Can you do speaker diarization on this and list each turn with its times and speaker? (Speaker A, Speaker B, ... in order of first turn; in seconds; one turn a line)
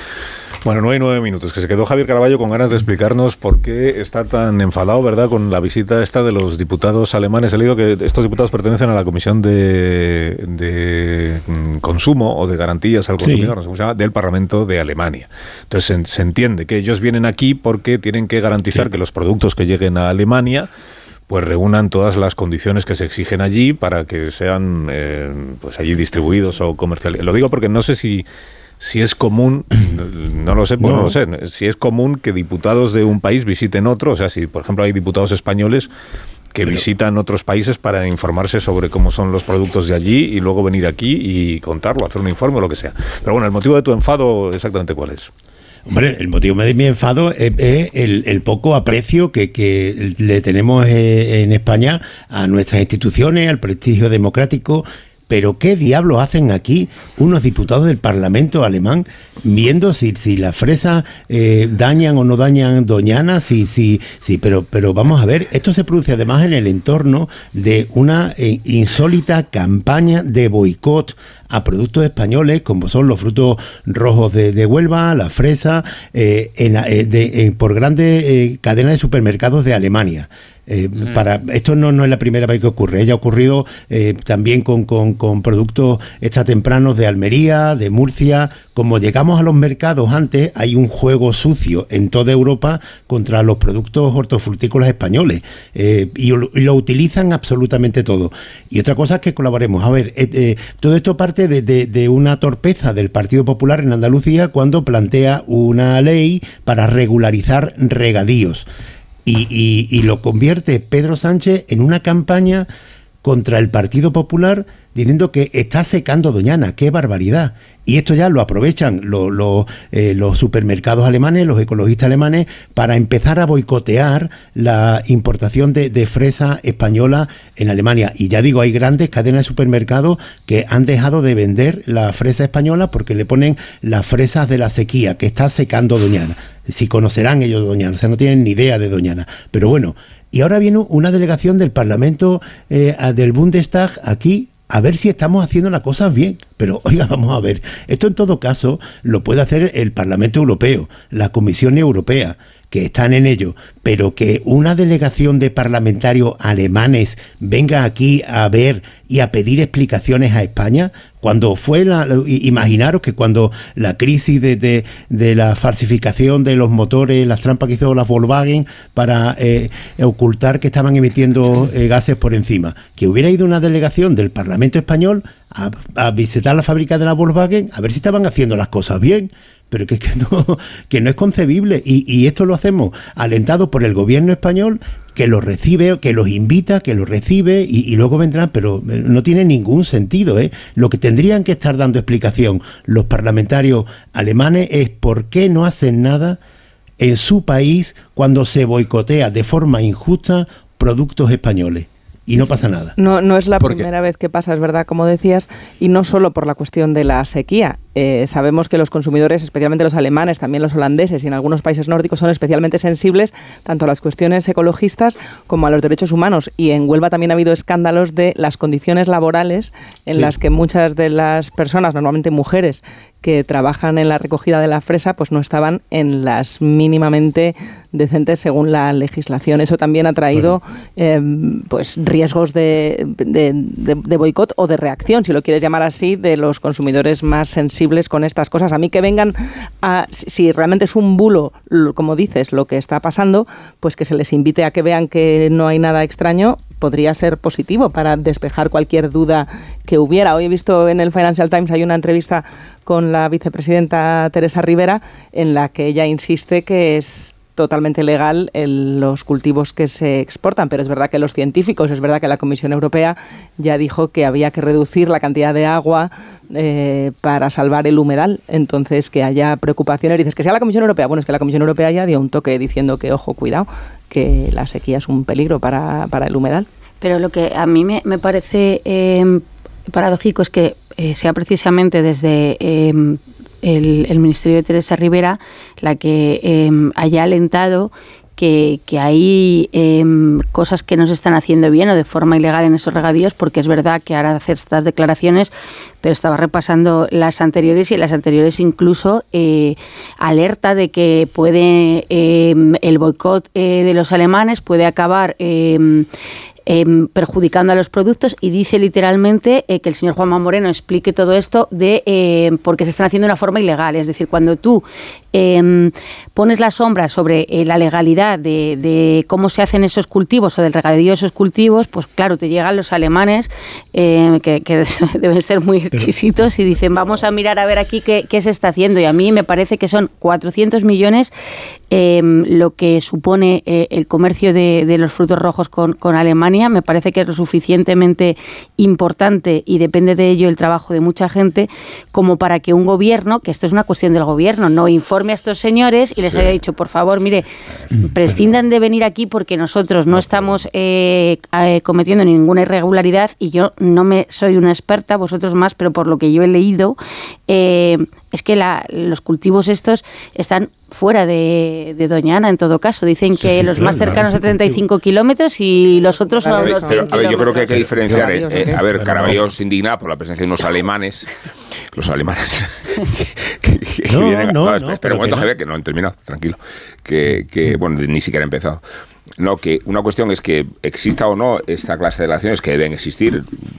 Speaker A: 0.6-20.7
Speaker B: 13.2-13.5
Speaker A: 21.3-28.3
Speaker A: 28.8-35.9
Speaker B: 30.8-31.1
Speaker A: 36.5-45.3
Speaker B: 45.9-108.7
Speaker B: 109.3-112.7
Speaker B: 113.2-196.4
Speaker B: 197.0-202.9
Speaker C: 203.0-276.7
Speaker D: 277.0-306.1
Speaker D: 306.7-331.3
Speaker D: 331.9-347.5
Speaker D: 348.0-357.0
Speaker D: 357.5-367.6
Speaker B: 363.4-364.8
Speaker C: 366.3-368.9
Speaker E: 366.6-371.3
Speaker A: 368.9-369.4
Speaker E: 371.9-378.8
Speaker B: 374.1-375.5
Speaker E: 379.4-383.5